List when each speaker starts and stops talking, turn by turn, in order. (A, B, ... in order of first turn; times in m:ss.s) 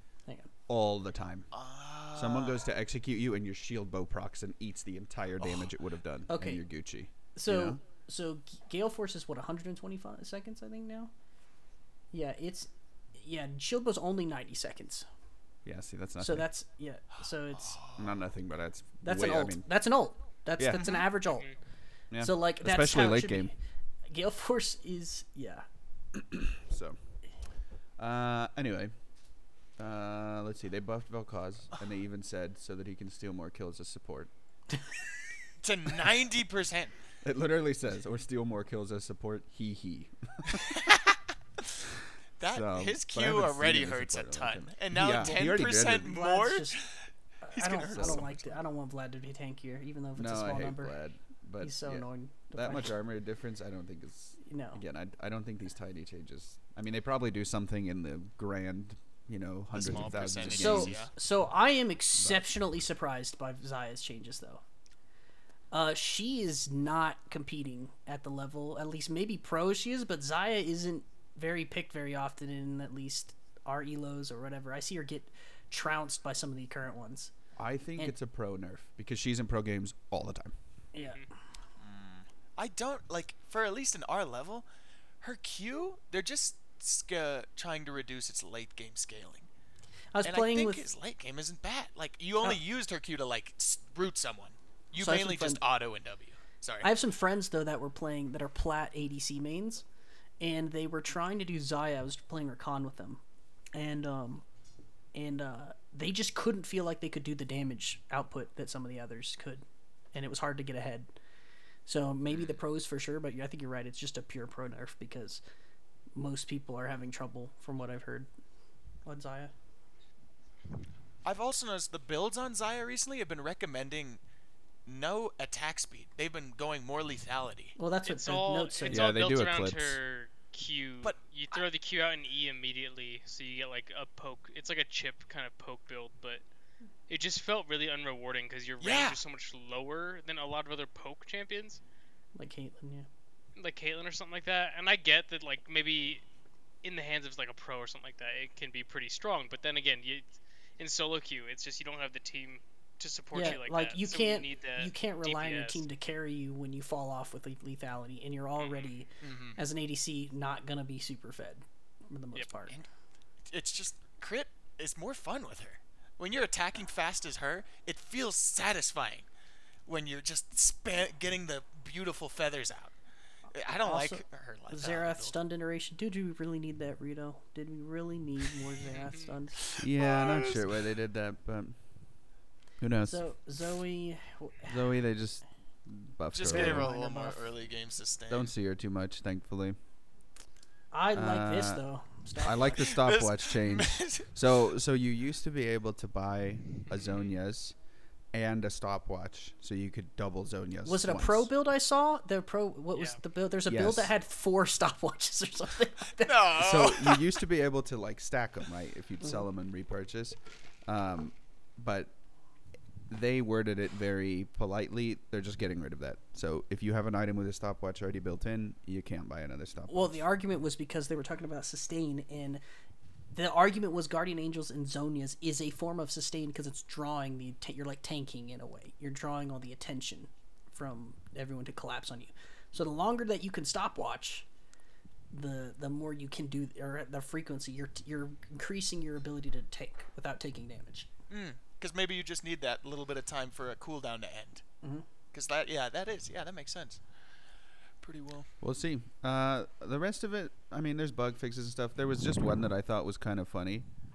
0:00.3-0:00.5 A
0:00.7-0:01.5 B
0:01.5-0:02.7 C
0:02.2-0:07.8 B
0:05.4-0:05.7 C
0:06.3-0:06.6 A
0:07.4-0:11.1 A
0:12.1-0:15.1 A
0:15.6-0:16.5 B
0:16.2-0:17.8 A
0:17.5-0:18.2 C
0:18.0-0:19.7 B
0:19.0-0:21.5 A
0:20.6-0:20.9 B
0:20.8-0:21.1 C
0:22.1-0:23.5 B
0:22.2-0:23.5 A
0:24.1-0:25.7 A
0:26.1-0:27.0 B
0:28.0-0:28.9 B
0:29.8-0:34.3 B
0:35.6-0:36.9 C
0:37.2-0:40.8 B
0:40.5-0:41.2 C
0:42.4-0:48.4 C
0:42.5-0:46.1 B
0:46.0-0:46.8 A
0:47.4-0:51.0 A
0:47.9-0:48.3 B
0:50.2-1:01.0 B
0:51.6-0:53.0 A
0:54.4-0:54.8 A
0:59.7-1:01.1 C
1:00.5-1:04.6 A
1:02.2-1:02.4 B
1:05.7-1:17.3 A
1:17.6-1:20.5 B
1:20.9-1:21.2 A
1:21.0-1:21.2 D
1:21.8-1:24.7 C
1:25.2-1:29.5 C
1:30.1-1:30.8 A
1:30.2-1:36.9 C
1:35.0-1:35.6 A
1:36.8-1:39.8 A
1:40.4-1:43.2 A
1:43.7-1:44.4 A
1:45.1-1:51.1 A
1:51.9-1:55.4 A
1:56.2-1:58.3 A
1:59.0-1:59.5 A
2:01.2-2:04.2 C
2:04.9-2:07.8 C
2:07.8-2:09.2 A
2:08.1-2:16.4 D
2:08.9-2:10.0 B
2:17.1-2:21.8 D
2:18.8-2:19.2 C
2:22.4-2:23.1 A
2:23.6-2:26.2 D
2:26.8-2:35.8 D
2:33.3-2:42.8 A
2:38.6-2:38.9 D
2:39.2-2:39.6 C
2:43.5-2:49.3 C
2:49.9-2:52.9 C
2:53.5-2:55.4 C
2:53.8-2:59.8 A
2:59.0-2:59.3 D
2:59.7-3:00.7 C
2:59.8-3:01.8 B
3:02.8-3:03.2 B
3:03.0-3:04.9 A
3:04.7-3:06.9 B
3:06.3-3:08.5 C
3:06.5-3:07.4 A
3:08.3-3:09.8 B
3:10.9-3:12.9 A
3:11.1-3:11.8 B
3:12.4-3:17.8 B
3:12.7-3:14.3 C
3:18.3-3:21.5 B
3:20.8-3:26.5 A
3:23.7-3:24.1 B
3:26.2-3:27.3 C
3:26.6-3:32.1 B
3:33.1-3:40.2 B
3:39.9-3:42.6 A
3:43.3-3:54.5 A
3:55.3-4:01.1 A
4:01.3-4:04.6 C
4:05.3-4:07.0 C
4:08.0-4:08.5 C
4:08.6-4:13.9 B